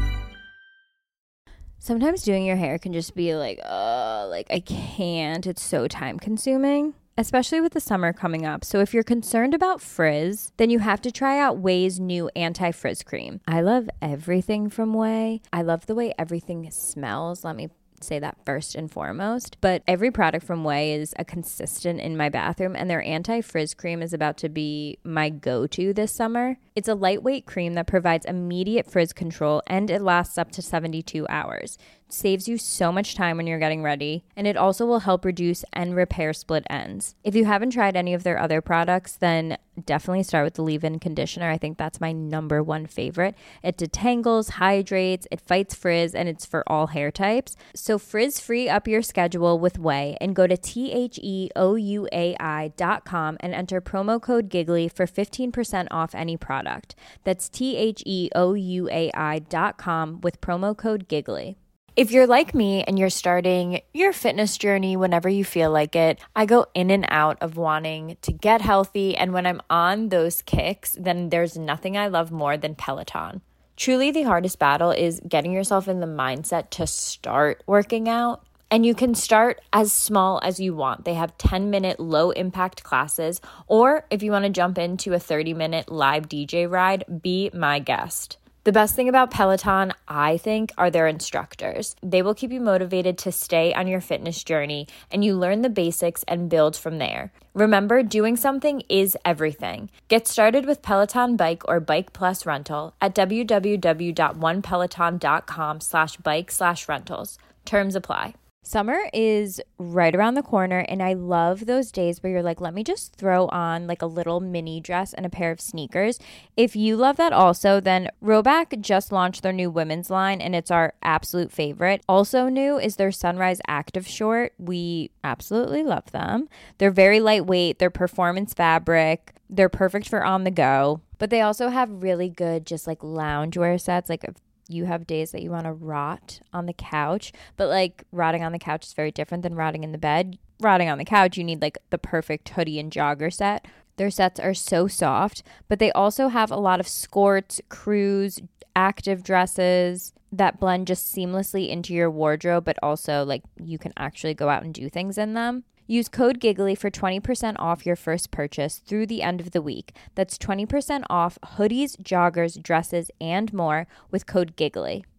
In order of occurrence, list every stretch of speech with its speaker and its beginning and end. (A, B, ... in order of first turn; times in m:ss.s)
0:01.8-2:45.0 A